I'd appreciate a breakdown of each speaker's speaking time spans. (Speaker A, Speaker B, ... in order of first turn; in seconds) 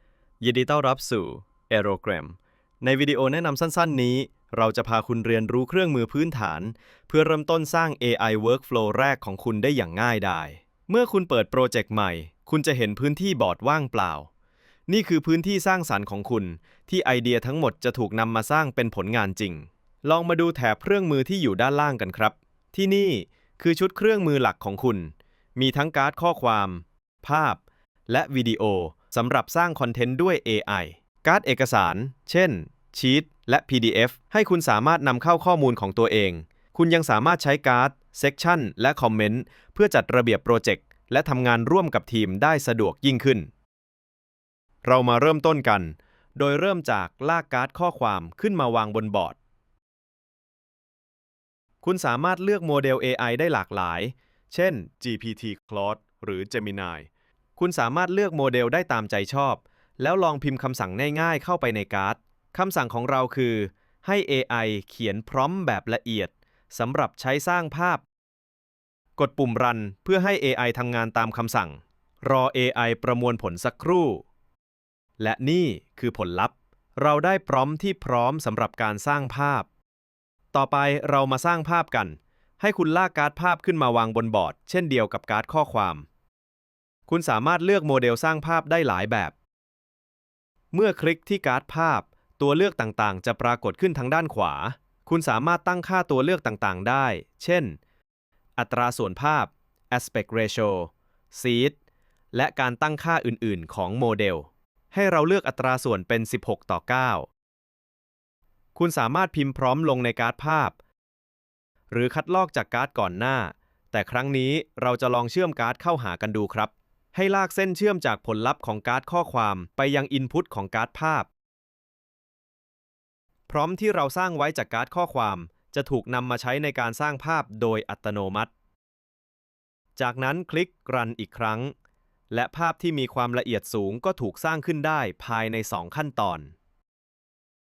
Speaker A: 0.4-14.3, 14.9-43.5, 44.9-49.4, 51.8-68.0, 69.2-74.2, 75.2-79.7, 80.5-86.1, 87.1-89.3, 90.7-97.8, 98.6-101.8, 102.3-107.3, 108.8-110.8, 111.9-121.3, 123.5-128.5, 130.0-131.7, 132.3-136.5